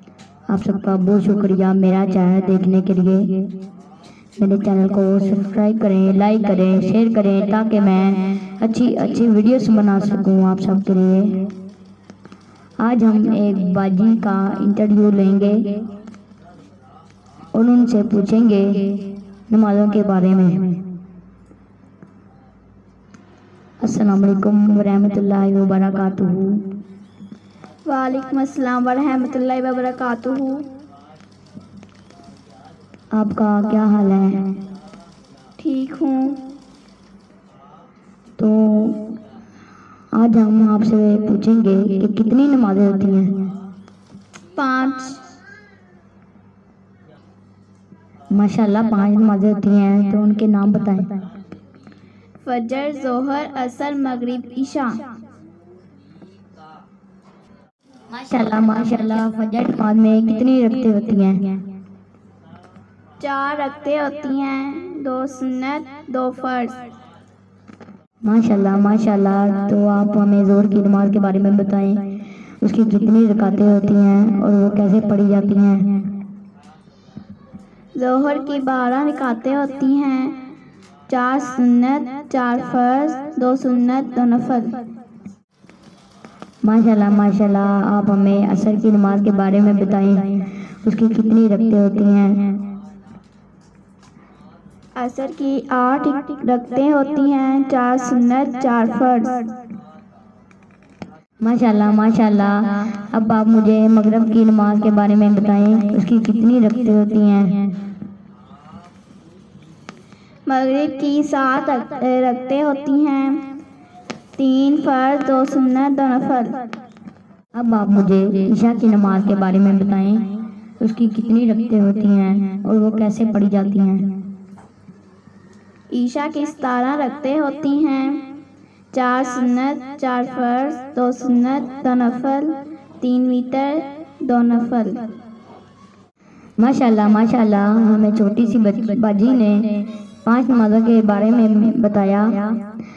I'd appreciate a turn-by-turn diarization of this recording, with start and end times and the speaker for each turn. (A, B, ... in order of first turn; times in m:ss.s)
0:00.5-0:03.5 A
0:04.4-0:11.5 A
0:12.8-0:15.6 A
0:17.5-0:19.0 A
0:19.5-0:20.8 A
0:23.8-0:26.6 A
0:27.8-0:30.7 B
0:33.1-0:34.5 A
0:35.6-0:36.4 B
0:38.4-0:39.1 A
0:40.1-0:43.5 A
0:44.6-0:45.2 B
0:48.3-0:51.2 A
0:52.4-0:55.1 B
0:58.1-1:01.5 A
1:03.2-1:06.8 B
1:08.2-1:12.0 A
1:12.6-1:15.9 A
1:17.9-1:20.4 B
1:21.1-1:24.8 B
1:26.6-1:32.5 A
1:35.0-1:39.5 B
1:41.4-1:47.7 A
1:50.4-1:53.5 B
1:54.4-1:56.6 B
1:57.5-2:00.3 A
2:00.8-2:04.1 A
2:05.9-2:08.3 B
2:08.9-2:15.1 B
2:16.6-2:22.6 A